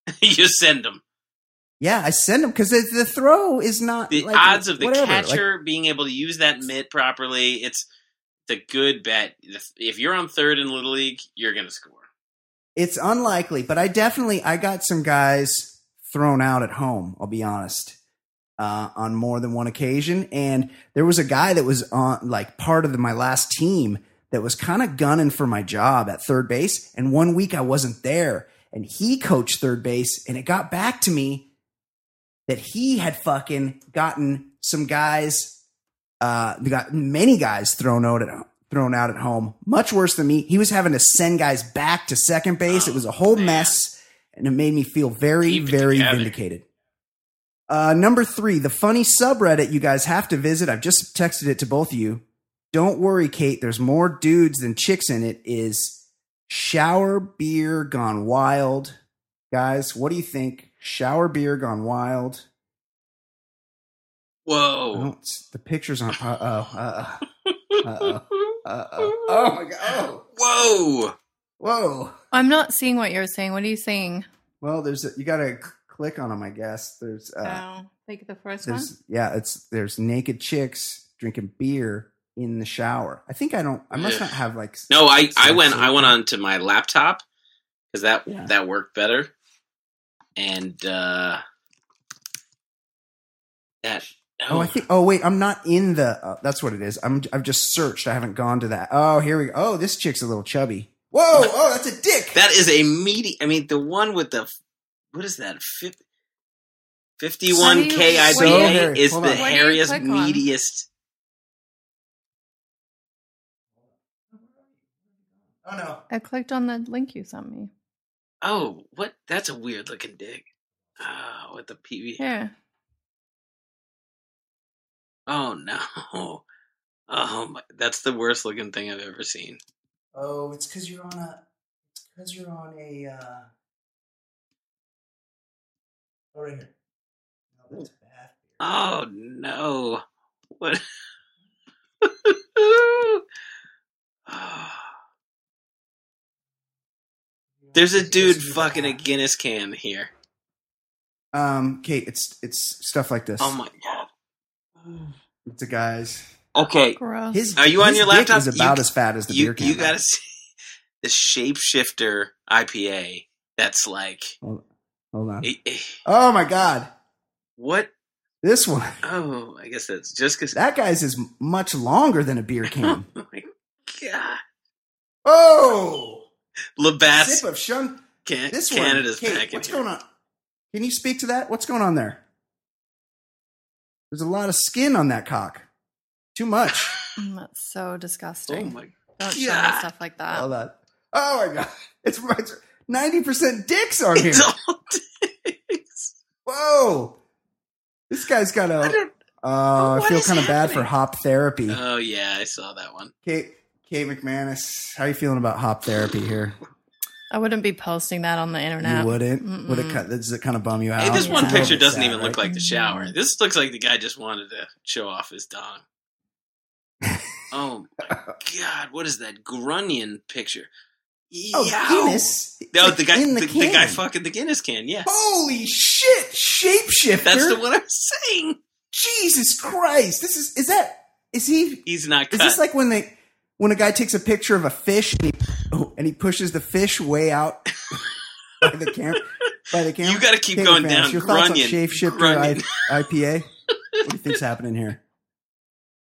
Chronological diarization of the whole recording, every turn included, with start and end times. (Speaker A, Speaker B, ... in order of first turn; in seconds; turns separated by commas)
Speaker A: 0.2-1.0, Speaker B: 1.8-5.4, Speaker A: 4.1-7.9, Speaker A: 8.5-12.1, Speaker B: 12.8-18.0, Speaker B: 18.6-31.5, Speaker B: 32.5-35.6, Speaker B: 36.2-46.6, Speaker A: 42.7-43.8, Speaker A: 45.4-46.4, Speaker B: 47.7-59.0, Speaker B: 59.5-62.5, Speaker A: 64.5-65.1, Speaker B: 64.9-67.2, Speaker A: 67.7-71.2, Speaker B: 67.8-70.2, Speaker B: 71.6-72.2, Speaker C: 72.3-74.3, Speaker B: 74.6-77.6, Speaker C: 77.4-78.9, Speaker B: 78.6-86.2, Speaker A: 83.9-84.3, Speaker A: 84.9-87.2, Speaker A: 87.9-89.3, Speaker B: 88.3-88.5, Speaker A: 90.4-91.4, Speaker A: 93.8-94.8, Speaker B: 94.5-102.4, Speaker A: 102.3-104.5, Speaker A: 105.1-106.0, Speaker A: 107.2-110.9, Speaker C: 107.5-110.4, Speaker B: 108.0-109.5, Speaker B: 114.3-114.7, Speaker B: 115.6-116.0, Speaker C: 116.1-117.7, Speaker A: 118.4-120.4, Speaker A: 121.0-122.2, Speaker C: 122.2-122.5, Speaker A: 125.3-126.4, Speaker A: 127.1-129.6, Speaker B: 130.1-131.4, Speaker B: 132.0-133.5, Speaker B: 136.3-136.7, Speaker B: 137.6-138.5, Speaker A: 138.6-140.0, Speaker A: 142.0-143.2, Speaker A: 144.3-144.9, Speaker B: 147.6-149.0, Speaker A: 147.7-150.1, Speaker B: 151.3-153.6, Speaker A: 153.4-154.1, Speaker B: 155.5-156.3, Speaker A: 156.6-157.0, Speaker C: 157.0-157.4, Speaker B: 157.3-160.0, Speaker A: 157.6-160.2, Speaker A: 161.0-164.3, Speaker B: 164.4-165.5, Speaker A: 165.4-166.0, Speaker B: 166.1-166.9, Speaker A: 167.6-167.9, Speaker B: 168.4-169.0, Speaker A: 169.0-170.6, Speaker B: 170.5-173.1, Speaker A: 172.7-174.4, Speaker B: 175.2-176.3, Speaker A: 176.8-177.4, Speaker B: 177.1-180.1, Speaker A: 178.3-179.8, Speaker B: 180.7-182.2, Speaker B: 184.1-185.7, Speaker B: 186.3-187.0, Speaker A: 186.8-187.1, Speaker C: 187.2-190.5, Speaker A: 188.5-189.9, Speaker B: 190.3-194.5, Speaker A: 194.2-196.1, Speaker B: 196.4-197.2, Speaker B: 198.1-201.8, Speaker A: 198.8-199.1, Speaker A: 199.8-200.9, Speaker A: 201.7-203.1, Speaker B: 203.2-206.6, Speaker C: 207.3-210.0, Speaker B: 208.8-212.4, Speaker A: 211.0-215.8, Speaker C: 211.1-211.8, Speaker C: 212.5-213.1, Speaker B: 217.0-217.4, Speaker A: 217.5-220.7, Speaker A: 221.3-225.1, Speaker B: 221.5-224.0, Speaker B: 225.1-227.6, Speaker A: 227.2-228.6, Speaker B: 228.9-238.0, Speaker A: 231.9-232.6, Speaker B: 238.6-243.5, Speaker A: 240.0-242.8, Speaker B: 244.0-245.0